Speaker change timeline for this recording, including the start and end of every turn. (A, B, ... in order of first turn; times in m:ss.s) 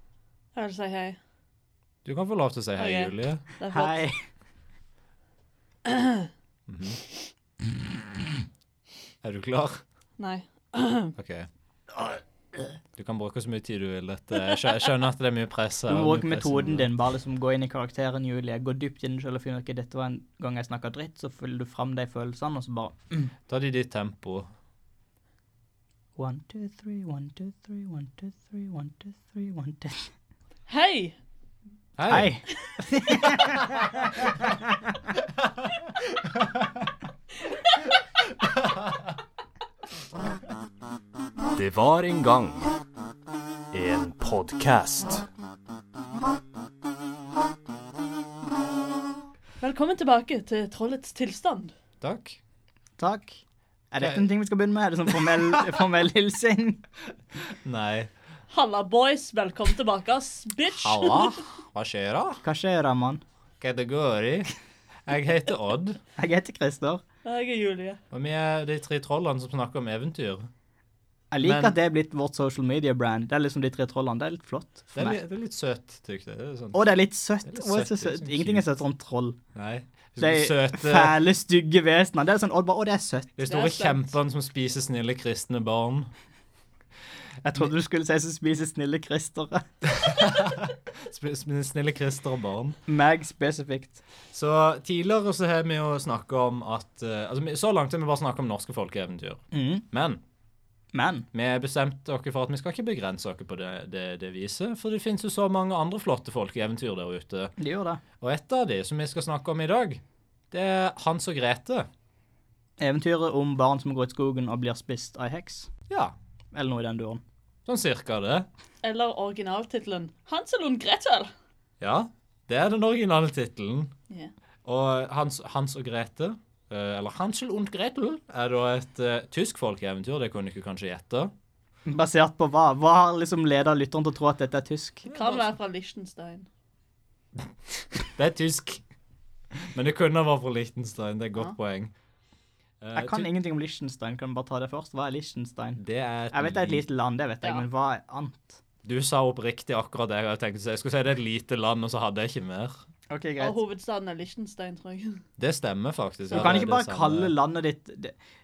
0:00.6-0:01.2 A
0:02.0-0:03.4 B
0:02.8-0:04.0 A
0:03.7-0:04.2 C
0:05.9-0:06.3 A
0:06.7-0:07.0 B
0:09.2-0:09.8 B
0:10.2-0:11.1 A
0:11.2-0:11.5 B
0:13.0-0:16.9 B
0:15.9-0:23.3 C
0:23.5-0:24.5 B
0:26.2-0:30.1 C
0:30.7-0:31.2 A
0:32.0-0:32.3 B
0:32.1-0:35.0 C
0:41.6-0:42.7 D
0:43.7-0:45.2 D
0:49.6-0:51.7 A
0:52.0-0:52.4 B
0:53.0-0:53.4 C
0:53.9-0:56.8 C
0:57.6-0:58.1 B
0:58.5-1:01.4 A
1:00.7-1:02.4 B
1:02.4-1:03.2 C
1:03.6-1:04.5 B
1:05.0-1:06.0 B
1:06.2-1:07.0 C
1:07.2-1:08.0 A
1:08.1-1:10.5 B
1:11.3-1:15.2 C
1:11.4-1:11.7 B
1:14.9-1:16.9 B
1:16.7-1:19.4 C
1:17.4-1:18.7 B
1:19.6-1:21.2 B
1:20.2-1:24.1 C
1:23.4-1:26.1 B
1:27.4-1:29.7 C
1:29.8-1:32.8 B
1:32.9-1:34.0 C
1:34.3-1:40.2 B
1:39.5-1:39.8 C
1:40.9-1:41.2 C
1:41.3-1:47.5 B
1:47.6-1:48.0 C
1:48.2-1:51.9 B
1:52.8-1:55.7 C
1:55.9-1:56.1 B
1:56.5-1:57.2 C
1:57.7-1:58.5 B
1:58.8-2:01.3 A
2:01.8-2:03.9 B
2:04.6-2:11.3 B
2:11.9-2:15.1 C
2:15.1-2:16.5 A
2:15.1-2:15.4 B
2:18.0-2:18.8 B
2:19.7-2:21.9 B
2:22.8-2:23.3 B
2:22.9-2:25.8 C
2:25.8-2:26.9 B
2:26.3-2:28.6 C
2:28.8-2:32.8 B
2:33.1-2:33.6 C
2:33.4-2:35.2 A
2:35.4-2:37.4 B
2:36.3-2:36.6 A
2:36.3-2:38.1 C